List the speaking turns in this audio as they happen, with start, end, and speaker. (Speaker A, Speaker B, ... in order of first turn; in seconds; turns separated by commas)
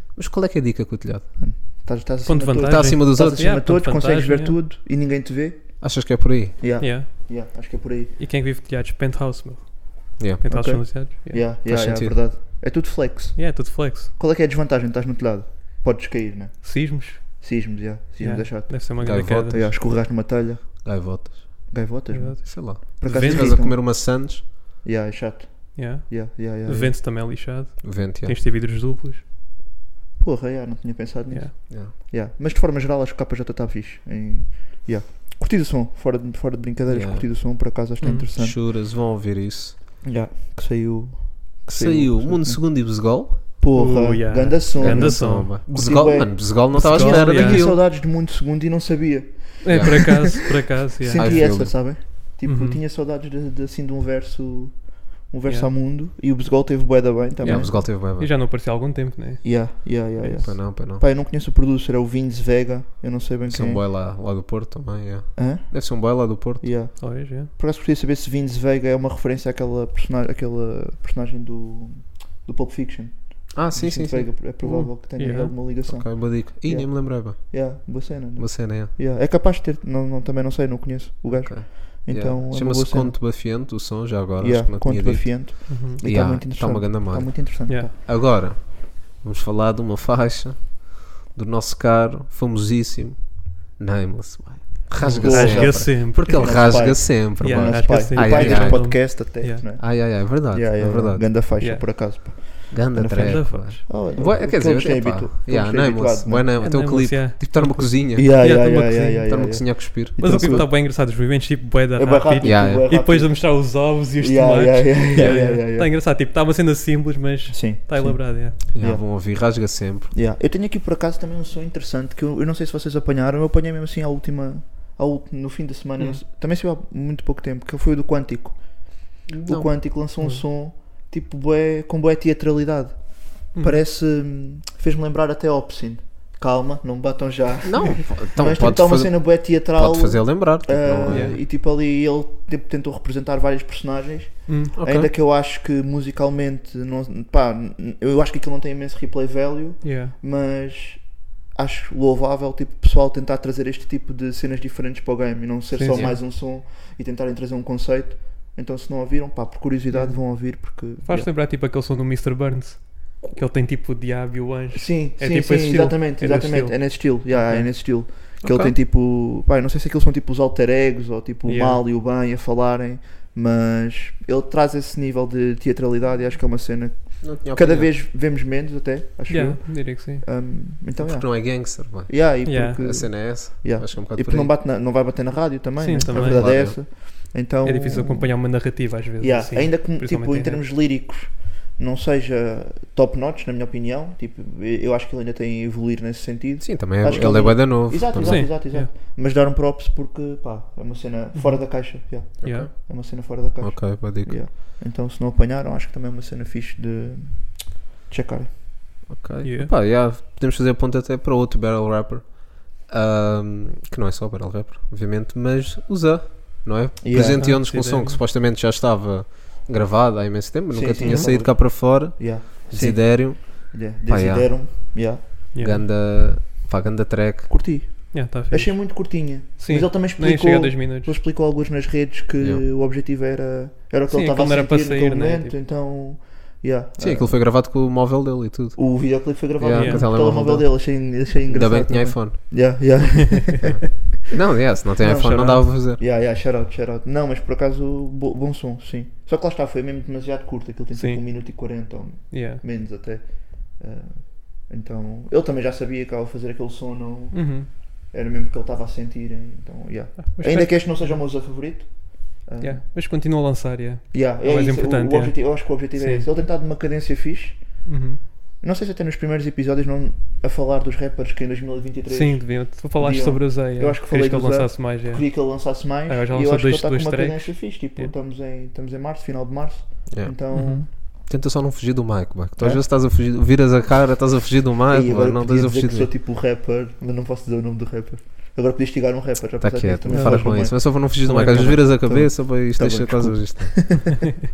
Speaker A: 0.1-1.3, Speaker B: 1.4-5.9, Speaker C: 2.3-4.6, Speaker A: 2.7-3.5, Speaker A: 5.8-6.6, Speaker B: 6.6-8.2, Speaker C: 6.8-7.3, Speaker C: 8.2-11.5, Speaker B: 10.4-21.1, Speaker A: 11.7-12.2, Speaker C: 13.4-14.1, Speaker C: 16.6-17.5, Speaker C: 18.2-19.6, Speaker A: 19.0-19.8, Speaker A: 20.8-21.7, Speaker B: 21.7-24.0, Speaker C: 22.1-23.6, Speaker A: 22.4-24.4, Speaker B: 24.8-27.0, Speaker C: 25.8-29.2, Speaker A: 27.8-28.4, Speaker B: 30.2-38.6, Speaker A: 36.9-37.3, Speaker C: 38.0-38.3, Speaker A: 38.4-39.8, Speaker B: 40.0-57.8, Speaker A: 41.7-43.4, Speaker C: 43.7-45.6, Speaker A: 44.8-47.8, Speaker C: 46.7-47.7, Speaker C: 49.6-51.7, Speaker A: 49.7-50.2, Speaker A: 51.1-51.8, Speaker C: 52.4-52.8, Speaker A: 57.4-58.3, Speaker C: 57.4-60.5, Speaker B: 59.4-63.8, Speaker A: 60.4-61.0, Speaker A: 63.5-66.7, Speaker B: 65.4-65.9, Speaker B: 66.6-83.2, Speaker C: 67.0-67.5, Speaker A: 73.5-74.3, Speaker C: 74.6-75.6, Speaker A: 75.8-78.9, Speaker A: 81.3-98.9, Speaker B: 84.4-87.9, Speaker C: 85.7-86.0, Speaker C: 95.0-99.7, Speaker B: 95.0-106.5, Speaker A: 99.8-101.3, Speaker C: 101.6-102.4, Speaker A: 102.7-108.5, Speaker C: 103.2-103.9, Speaker C: 106.6-109.6, Speaker B: 108.2-110.7, Speaker A: 109.3-110.7, Speaker C: 110.2-118.6, Speaker B: 112.0-116.0, Speaker A: 112.4-112.9, Speaker B: 117.5-119.1, Speaker A: 118.7-120.1, Speaker B: 120.1-161.3, Speaker A: 129.3-129.7, Speaker C: 133.5-133.8, Speaker A: 137.6-141.3, Speaker C: 141.1-141.4, Speaker C: 144.5-144.7, Speaker A: 144.8-145.1, Speaker C: 149.8-150.2, Speaker C: 155.7-156.2, Speaker A: 155.9-156.2, Speaker C: 159.9-167.7, Speaker B: 164.7-208.6, Speaker A: 168.4-168.7, Speaker C: 171.5-171.8, Speaker A: 177.2-178.0, Speaker C: 179.3-180.3, Speaker A: 181.0-184.5, Speaker C: 182.5-182.8, Speaker C: 185.8-187.0, Speaker A: 186.1-186.8, Speaker C: 187.6-190.6, Speaker A: 196.6-198.4, Speaker C: 198.2-198.9, Speaker C: 201.3-202.7, Speaker A: 202.4-202.9, Speaker A: 203.6-204.4, Speaker A: 209.1-224.9, Speaker C: 209.4-209.7, Speaker B: 217.0-217.4, Speaker C: 217.4-218.2, Speaker B: 220.7-225.2, Speaker C: 225.5-225.8, Speaker A: 225.6-227.5, Speaker B: 227.5-237.4, Speaker C: 228.1-231.2, Speaker C: 234.1-235.6, Speaker A: 237.0-239.0, Speaker B: 238.8-243.7, Speaker A: 239.6-242.4, Speaker C: 239.8-240.1, Speaker A: 244.3-246.0, Speaker B: 245.0-262.8, Speaker C: 250.9-251.2, Speaker C: 252.3-252.6, Speaker C: 257.3-257.7, Speaker C: 260.2-261.2, Speaker C: 262.6-266.3, Speaker B: 264.1-267.9, Speaker C: 267.9-268.2, Speaker B: 268.6-280.9, Speaker C: 272.1-278.1, Speaker A: 280.1-286.1, Speaker C: 280.5-280.9, Speaker B: 282.6-282.8, Speaker B: 284.9-294.1, Speaker A: 289.6-294.1, Speaker C: 290.1-291.9